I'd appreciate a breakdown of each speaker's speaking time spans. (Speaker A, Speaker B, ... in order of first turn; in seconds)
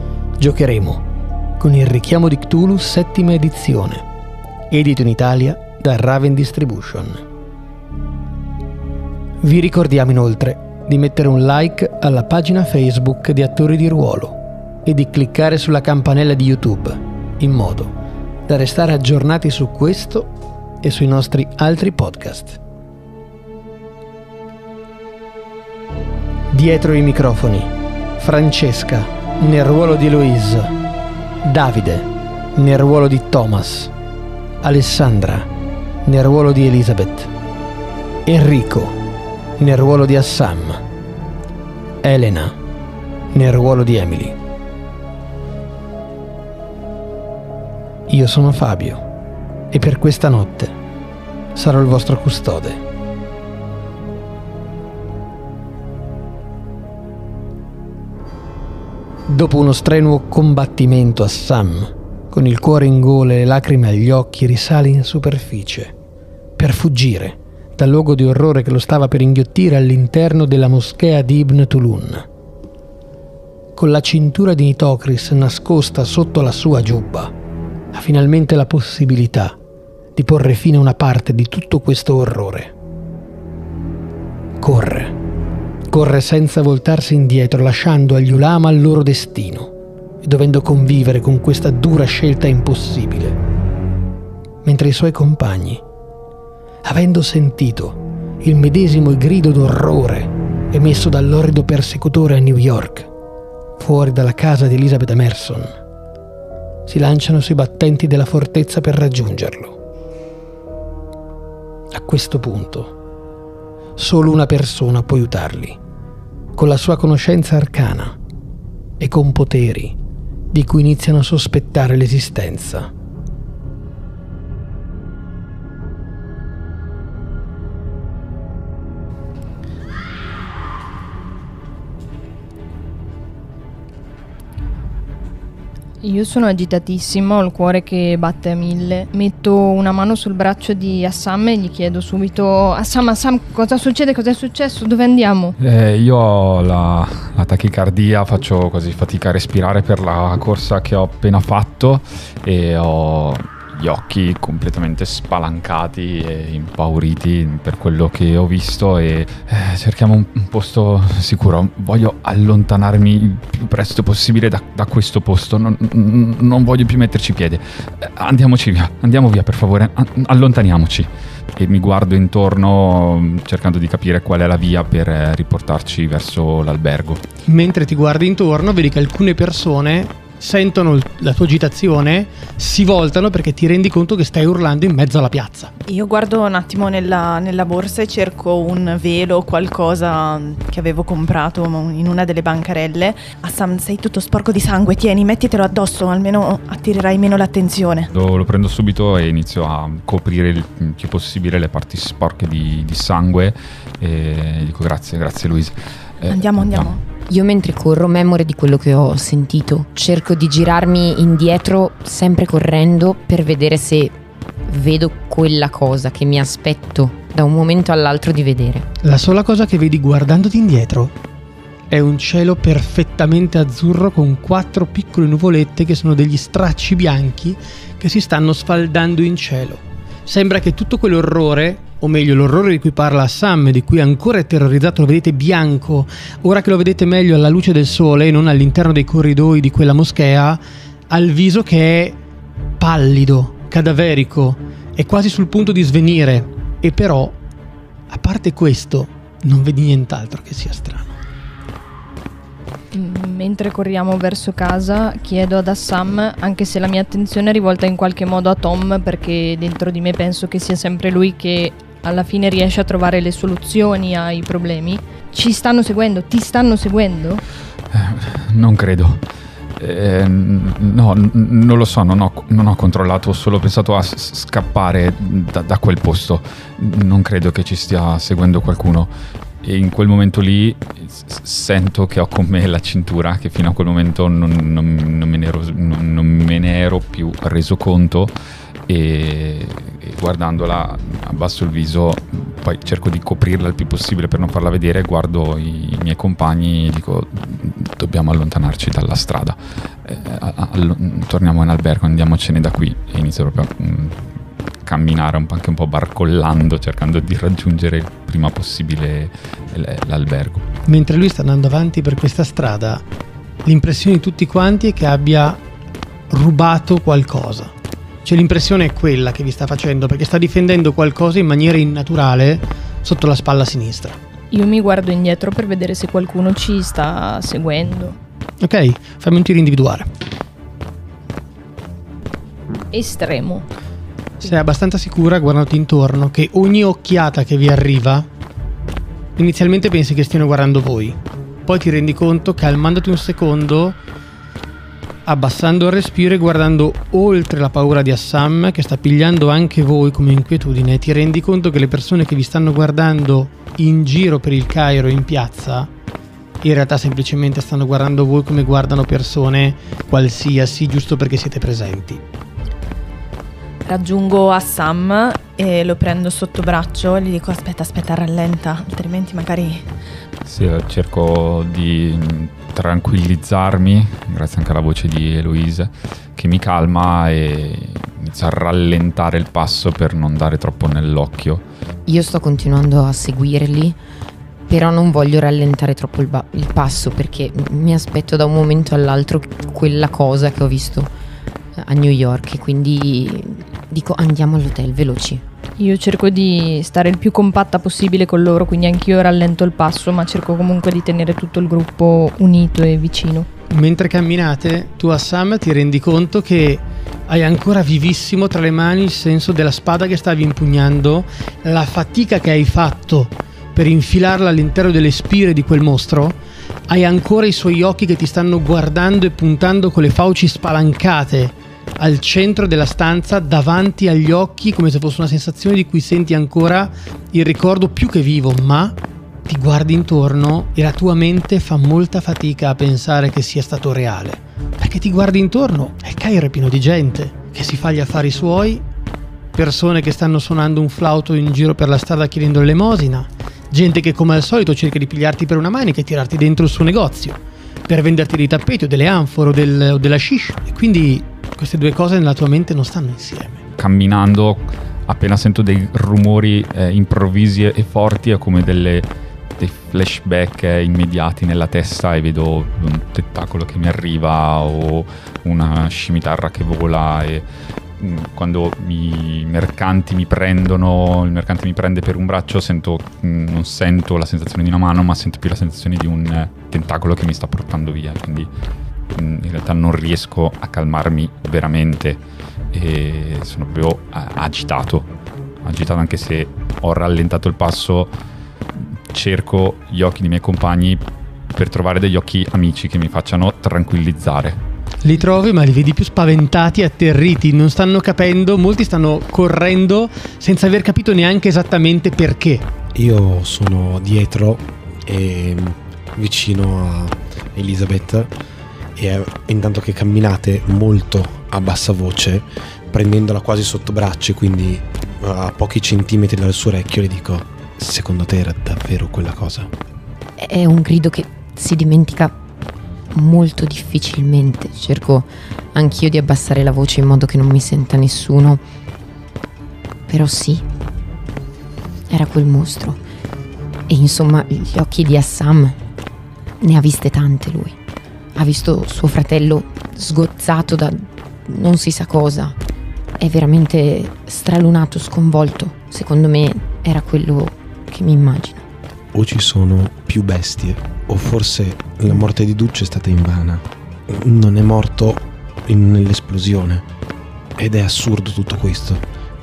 Speaker A: 0.4-1.1, 1.6-4.0, 4.7-7.2, 9.4-17.9, 18.5-20.3, 20.8-22.6, 26.5-30.7, 31.4-33.9, 34.6-35.5, 36.1-37.3, 38.3-39.0, 39.6-40.8, 42.0-42.6, 43.3-44.4, 48.1-49.0, 49.7-50.8, 51.5-52.8, 59.3-65.9, 66.6-72.3, 73.8-77.3, 77.9-79.6, 80.2-82.7, 84.6-85.2, 85.9-89.7, 90.2-93.4, 94.6-95.8, 96.8-103.1, 103.8-105.7, 106.9-109.8, 111.9-113.0, 114.0-115.8, 116.6-118.2, 119.0-120.0, 120.5-122.9, 177.5-185.7, 219.0-221.1, 221.9-242.2, 242.8-247.4, 248.1-251.2, 310.9-313.0, 313.6-315.6, 316.3-317.7, 318.2-324.2, 328.6-330.1, 334.4-338.3, 339.4-344.0, 345.2-355.9, 356.6-362.2, 403.7-438.8, 439.5-453.6, 495.0-502.7
Speaker B: 136.0-145.6, 252.9-267.4, 324.5-328.2, 332.9-333.7, 395.8-403.5
Speaker C: 145.6-177.2, 198.1-207.0, 267.9-269.2, 269.8-288.3, 288.9-304.3, 304.8-310.7, 370.4-381.6, 453.8-467.4, 468.0-478.5, 479.1-485.1, 485.6-488.1, 488.8-491.0, 491.5-494.6
Speaker D: 185.9-198.1, 206.3-207.0, 363.9-369.9
Speaker E: 207.3-218.9, 382.1-384.0, 384.7-391.1, 391.8-395.4, 520.4-522.4, 523.1-528.6, 530.1-530.7, 532.1-533.0, 533.9-535.8, 536.6-537.8, 538.4-542.6, 543.2-548.6
Speaker F: 502.9-508.3, 509.0-519.7, 549.1-556.9, 557.6-559.0